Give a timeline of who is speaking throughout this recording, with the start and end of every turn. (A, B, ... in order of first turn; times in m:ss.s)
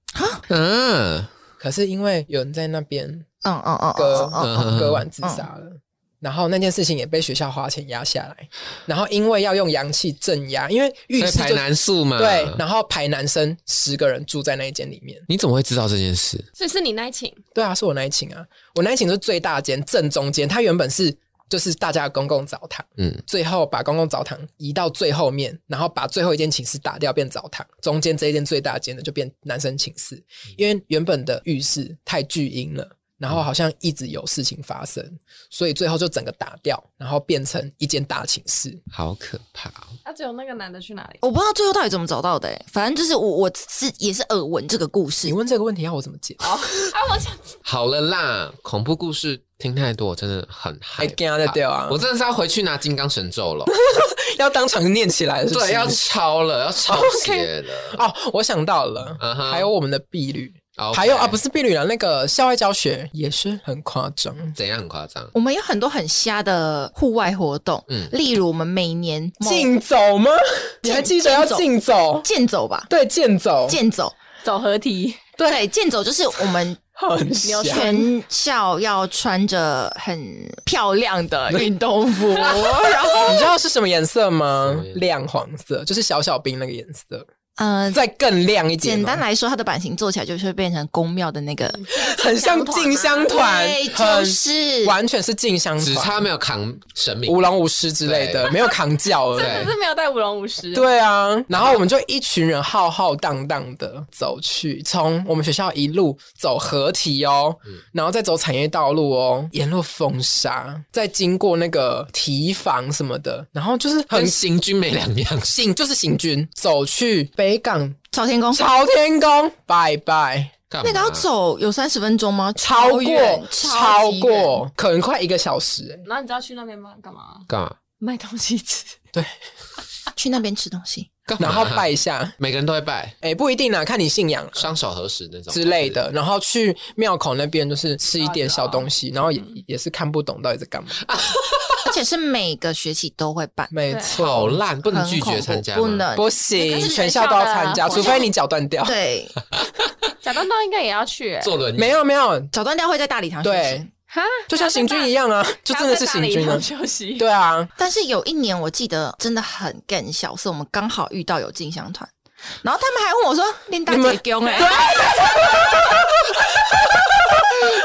0:00.2-0:00.4 A
0:00.5-0:01.3 B
0:01.6-0:03.3 C
0:03.4-0:04.5 A
0:04.0-0:15.2 C
0:04.4-0:05.1 B
0:05.2-0:05.5 A
0:11.2-0:12.6 B
0:15.3-0:16.5 B
0:16.6-0:17.4 D
0:17.6-0:38.8 C
0:38.9-0:40.0 B
0:40.0-0:41.2 D
0:41.2-0:45.4 A
0:45.3-0:46.6 C
0:46.4-0:47.5 D
0:47.6-0:53.8 B
0:51.0-0:52.0 C
0:53.7-0:56.0 C
0:55.5-0:58.0 B
0:56.8-1:04.6 C
0:59.2-0:59.7 B
1:00.8-1:01.4 B
1:04.6-1:05.3 B
1:05.3-1:09.7 A
1:09.4-1:12.3 C
1:10.8-1:11.7 A
1:12.2-1:12.9 A
1:12.9-1:13.8 C
1:13.7-1:14.2 A
1:14.4-1:15.2 D
1:15.4-1:15.6 C
1:15.4-1:16.8 A
1:17.0-1:17.9 C
1:17.4-1:18.1 D
1:17.6-1:23.5 A
1:22.4-1:27.3 C
1:24.6-1:25.0 B
1:27.6-1:28.0 A
1:27.9-1:29.2 C
1:28.8-1:31.8 A
1:31.7-1:33.3 D
1:31.9-1:36.2 C
1:33.3-1:35.0 A
1:35.8-1:37.4 B
1:37.3-1:39.7 C
1:38.0-1:38.5 B
1:38.5-1:38.8 D
1:39.3-1:40.9 D
1:39.4-1:39.7 B
1:40.7-1:54.4 C
1:54.1-1:55.6 B
1:55.5-1:58.0 C
1:58.1-1:58.6 A
1:58.5-2:00.5 C
2:00.7-2:01.3 B
2:00.8-2:04.7 A
2:02.6-2:06.0 C
2:06.0-2:07.5 D
2:07.5-2:07.8 B
2:08.0-2:09.0 D
2:10.1-2:11.1 A
2:11.3-2:11.9 B
2:11.4-2:12.4 C
2:12.4-2:13.2 B
2:13.2-2:14.7 C
2:14.6-2:16.0 B
2:15.5-2:21.1 C
2:18.2-2:18.9 D
2:21.0-2:21.9 B
2:21.8-2:23.7 A
2:23.7-2:24.6 C
2:23.9-2:24.2 D
2:24.1-2:26.1 B
2:24.8-2:28.3 A
2:26.2-2:29.0 C
2:26.6-2:28.3 D
2:28.8-2:29.4 A
2:30.2-2:31.6 D
2:31.4-2:32.0 B
2:31.8-2:32.5 C
2:32.5-2:33.9 A
2:33.4-2:33.8 C
2:34.1-2:35.1 D
2:34.5-2:37.7 C
2:35.7-2:37.3 D
2:37.8-2:42.1 A
2:42.6-2:44.8 A
2:43.9-2:46.2 C
2:44.4-2:45.2 D
2:45.1-2:45.6 B